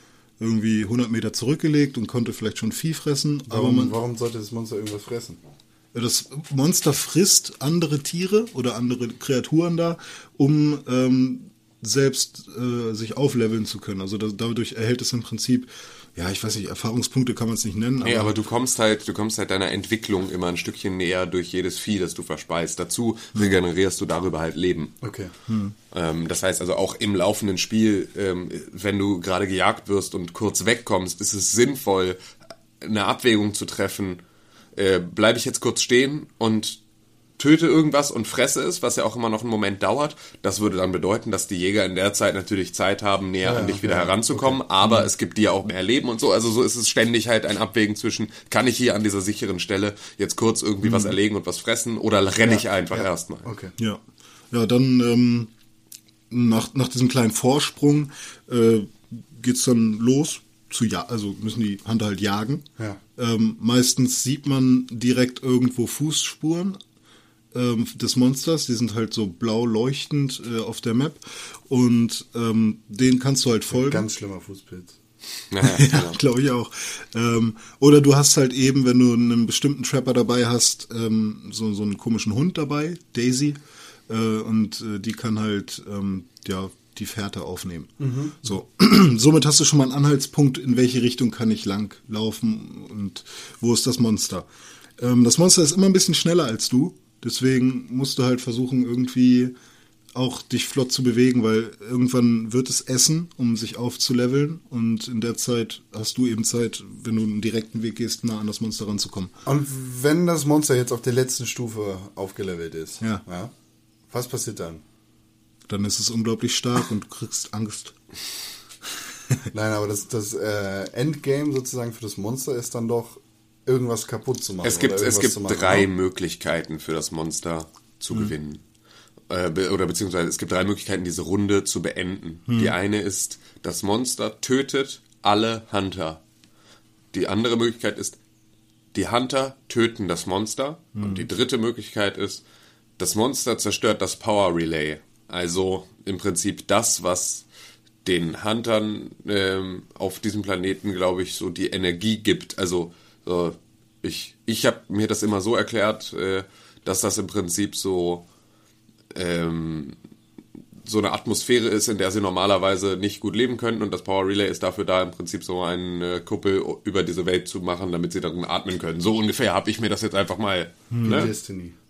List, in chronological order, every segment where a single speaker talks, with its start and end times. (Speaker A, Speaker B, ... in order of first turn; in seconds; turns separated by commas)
Speaker A: 0.4-3.9, Speaker B: 3.5-5.4, Speaker A: 5.9-18.3, Speaker C: 18.0-24.9, Speaker B: 25.0-25.3, Speaker A: 25.5-25.7, Speaker C: 25.9-32.2, Speaker C: 32.8-34.2, Speaker C: 34.7-36.8, Speaker C: 37.4-53.5, Speaker B: 43.4-44.6, Speaker B: 52.4-53.7, Speaker A: 54.5-55.5, Speaker A: 56.3-66.8, Speaker A: 67.5-74.0, Speaker B: 73.7-75.0, Speaker C: 75.5-76.2, Speaker A: 75.6-83.6, Speaker A: 84.1-94.5, Speaker B: 88.0-88.5, Speaker A: 95.0-99.5, Speaker A: 100.1-109.3, Speaker B: 109.5-113.5, Speaker B: 114.1-114.8, Speaker A: 115.7-117.9, Speaker B: 119.5-125.9, Speaker C: 124.6-128.6, Speaker C: 129.3-136.2, Speaker A: 132.5-132.7, Speaker C: 137.1-138.2, Speaker C: 138.9-142.4, Speaker A: 140.9-141.2, Speaker C: 143.0-147.4, Speaker C: 148.0-158.2, Speaker C: 159.1-159.9, Speaker C: 160.8-171.3, Speaker A: 170.9-171.3, Speaker B: 171.0-171.8